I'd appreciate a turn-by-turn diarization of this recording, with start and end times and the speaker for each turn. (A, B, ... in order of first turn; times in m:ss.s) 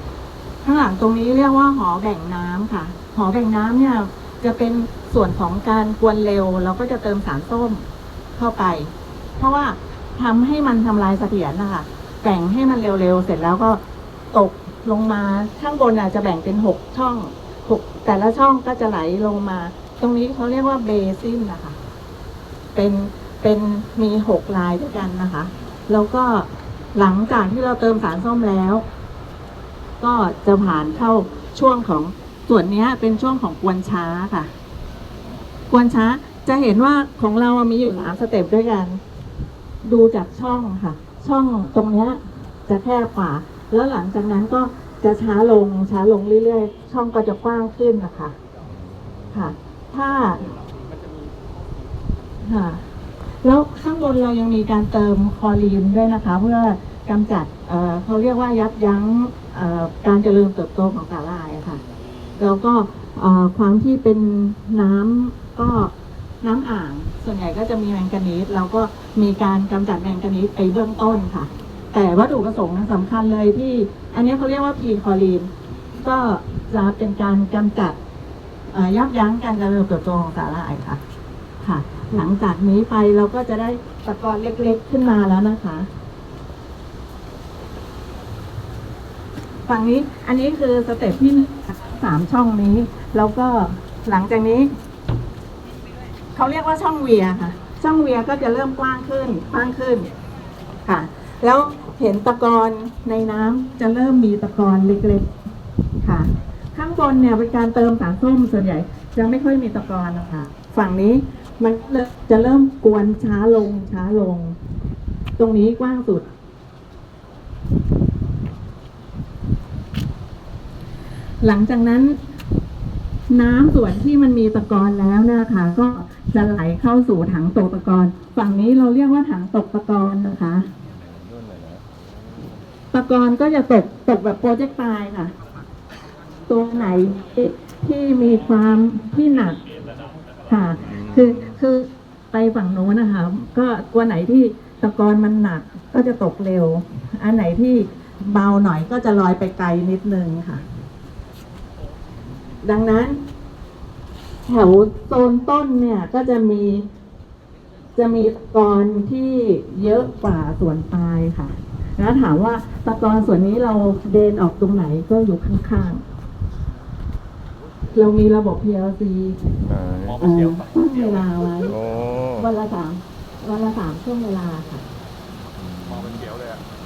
0:00.6-0:13.8 A
0:14.3-0:21.8 A
0:22.7-0:28.8 A
0:30.0-0:34.5 A
0:35.7-0:39.0 A
0:39.8-0:48.3 A
0:48.7-0:49.3 B
0:49.3-0:50.5 A
0:52.4-0:52.8 A
0:53.4-1:01.8 A
1:02.4-1:15.5 A
1:16.0-1:18.0 A
1:18.7-1:21.0 A
1:21.6-1:25.9 A
1:29.7-1:34.7 A
1:36.3-1:40.1 A
1:40.8-1:45.3 A
1:46.0-1:54.6 A
1:55.4-1:56.3 A
2:01.4-2:02.2 A
2:03.3-2:10.7 A
2:10.9-2:11.8 B
2:12.9-2:15.3 A
2:16.5-2:19.6 A
2:20.5-2:30.6 A
2:20.8-2:21.6 B
2:32.6-2:33.2 A
2:34.5-2:36.9 A
2:38.0-2:46.0 A
2:47.9-2:49.4 A
2:49.6-2:50.2 B
2:50.2-2:51.7 A
2:51.7-2:52.5 B
2:52.4-2:54.8 A
2:55.6-2:56.2 B